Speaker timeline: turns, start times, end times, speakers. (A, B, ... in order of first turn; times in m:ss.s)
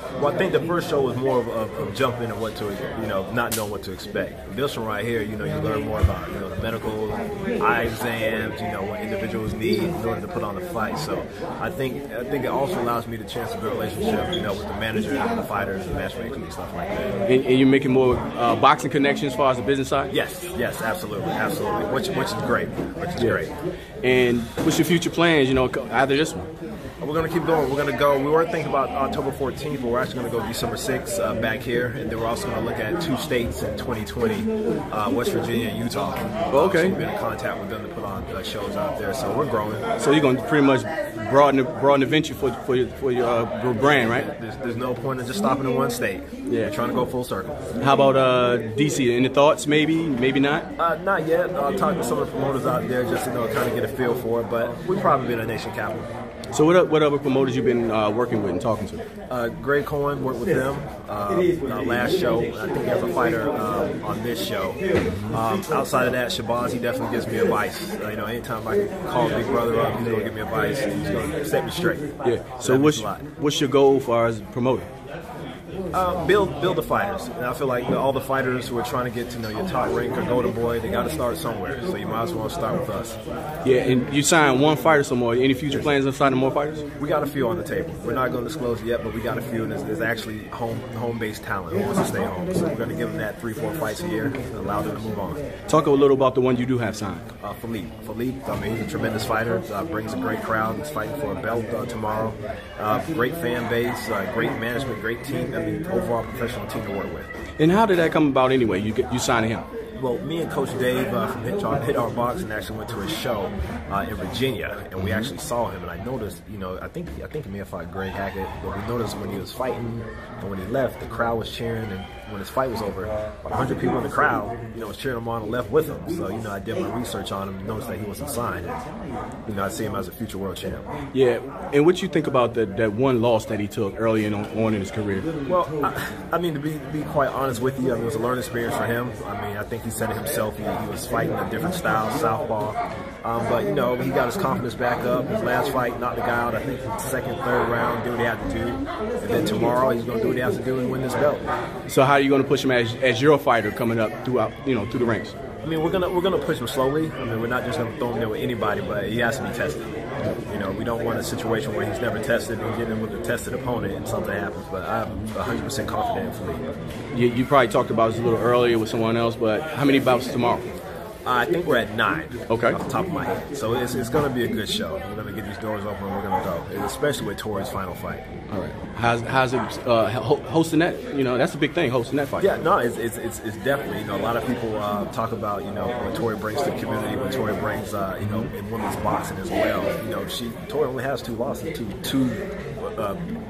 0:00.2-0:17.2 A
0:17.3-0:20.1 B
0:20.1-0:23.5 A
0:24.0-0:26.5 B
0:27.0-0:39.9 A
0:36.5-0:37.0 B
0:40.0-0:44.3 B
0:44.1-0:47.6 A
0:47.8-0:50.7 B
0:50.8-0:56.1 A
0:56.5-0:59.0 B
0:59.3-1:13.3 A
1:12.2-1:14.9 B
1:15.9-1:23.2 A
1:23.6-1:26.8 B
1:27.0-1:35.4 A
1:35.7-1:37.3 B
1:37.4-1:47.3 A
1:47.6-1:49.7 B
1:50.0-2:08.8 A
2:09.5-2:10.8 A
2:11.1-2:15.3 B
2:15.5-2:31.4 A
2:31.9-2:35.4 B
2:35.6-2:40.0 A
2:40.5-2:46.8 A
2:47.1-2:50.7 B
2:51.2-2:58.2 A
2:52.5-2:52.8 B
2:58.5-3:02.5 B
3:02.4-3:13.2 A